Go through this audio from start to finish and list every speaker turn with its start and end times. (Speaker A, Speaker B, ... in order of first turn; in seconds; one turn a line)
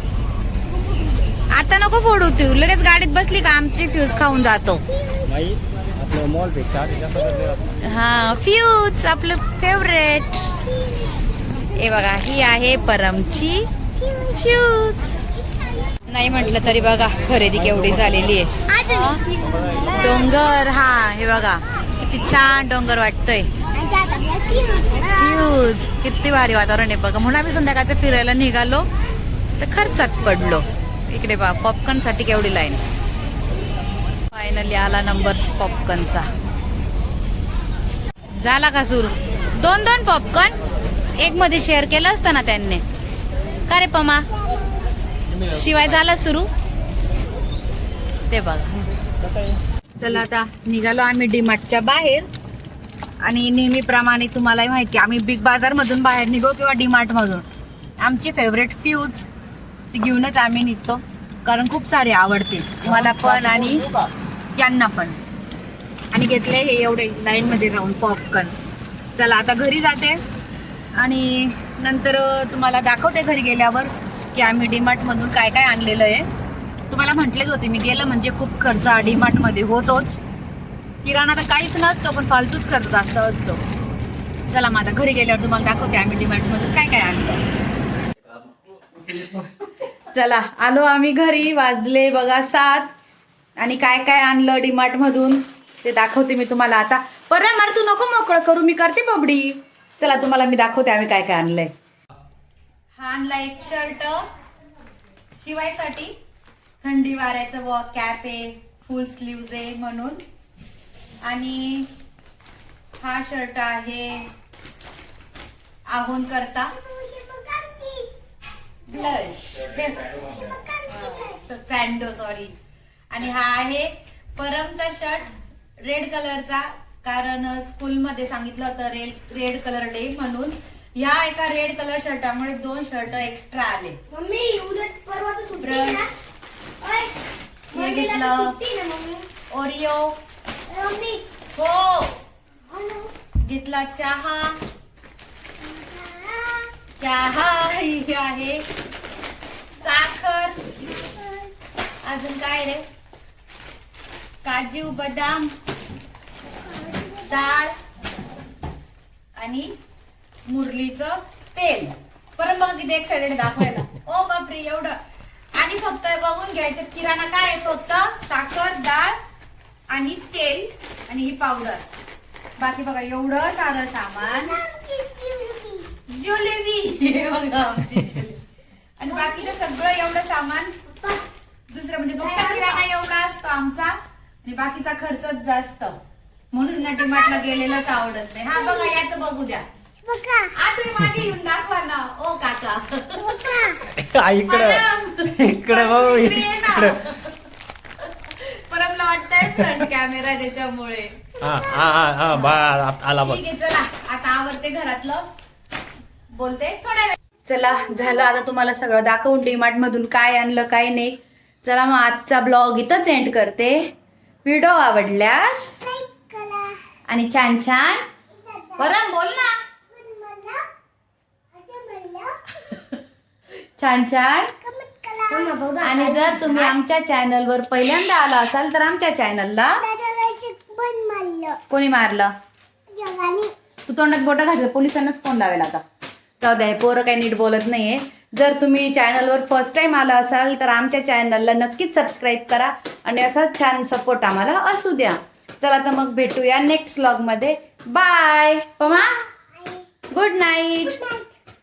Speaker A: 1.5-4.8
Speaker B: 4.9-5.5
Speaker C: 5.3-7.6
Speaker B: 7.1-7.5
Speaker A: 7.8-10.5
Speaker B: 10.8-11.2
Speaker A: 11.8-13.7
Speaker B: 14.0-14.6
Speaker A: 14.3-15.2
Speaker A: 16.1-19.2
Speaker B: 18.7-20.3
Speaker A: 20.0-23.5
Speaker B: 23.7-25.5
Speaker A: 25.2-28.9
Speaker A: 29.6-32.8
Speaker A: 34.3-36.3
Speaker A: 38.4-40.5
Speaker A: 41.2-42.8
Speaker A: 43.7-44.3
Speaker A: 45.4-46.5
Speaker A: 48.3-48.8
Speaker A: 50.0-52.3
Speaker A: 53.2-57.4
Speaker A: 58.0-59.3
Speaker A: 59.9-63.8
Speaker C: 62.8-64.1
Speaker A: 64.6-65.2
Speaker A: 66.1-68.5
Speaker A: 69.2-70.2
Speaker A: 71.0-76.2
Speaker A: 76.9-80.2
Speaker A: 81.0-83.6
Speaker A: 84.5-87.4
Speaker A: 89.2-92.9
Speaker A: 93.6-101.7
Speaker A: 103.0-104.2
Speaker A: 105.4-106.1
Speaker A: 106.8-110.2
Speaker A: 111.2-111.9
Speaker A: 113.0-114.3
Speaker A: 115.9-116.7
Speaker B: 116.7-118.1
Speaker B: 118.9-119.3
Speaker A: 118.9-120.2
Speaker C: 119.8-120.5
Speaker B: 120.0-121.4
Speaker A: 120.9-122.5
Speaker A: 123.1-125.3
Speaker A: 125.8-134.0
Speaker B: 134.1-136.1
Speaker A: 135.6-136.0
Speaker B: 136.8-137.2
Speaker B: 137.7-139.3
Speaker A: 137.7-138.5
Speaker A: 139.5-140.2
Speaker B: 140.7-141.3
Speaker A: 141.6-142.2
Speaker B: 142.7-143.1
Speaker A: 143.4-144.6
Speaker B: 145.6-146.7
Speaker A: 147.0-148.6
Speaker A: 149.7-150.7
Speaker B: 150.8-151.5
Speaker A: 152.0-152.8
Speaker A: 154.4-155.5
Speaker B: 156.6-157.6
Speaker A: 157.2-157.7
Speaker A: 159.4-159.7
Speaker A: 160.5-165.0
Speaker A: 165.6-169.2
Speaker A: 169.9-171.8
Speaker A: 172.6-174.6
Speaker B: 174.2-175.9
Speaker A: 176.1-178.4
Speaker A: 179.0-180.8
Speaker B: 179.1-179.5
Speaker A: 181.7-186.0
Speaker B: 182.2-182.8
Speaker A: 186.5-189.7
Speaker B: 186.8-187.9
Speaker B: 188.5-189.0
Speaker B: 190.0-190.5
Speaker A: 190.5-193.8
Speaker B: 193.2-193.9
Speaker C: 193.9-197.0
Speaker A: 194.4-197.3
Speaker A: 198.0-201.1
Speaker C: 201.4-203.4
Speaker A: 202.3-205.2
Speaker A: 206.3-213.8
Speaker A: 214.4-215.7
Speaker B: 215.8-216.8
Speaker A: 217.1-218.0
Speaker B: 218.3-220.7
Speaker A: 218.8-219.6
Speaker B: 221.5-222.5
Speaker A: 223.8-224.5
Speaker B: 224.6-226.7
Speaker A: 225.8-229.8
Speaker B: 229.8-231.6
Speaker A: 231.7-232.3
Speaker B: 232.9-233.5
Speaker A: 233.9-235.8
Speaker A: 236.4-249.1
Speaker B: 248.8-250.0
Speaker A: 250.1-251.0
Speaker B: 250.8-251.3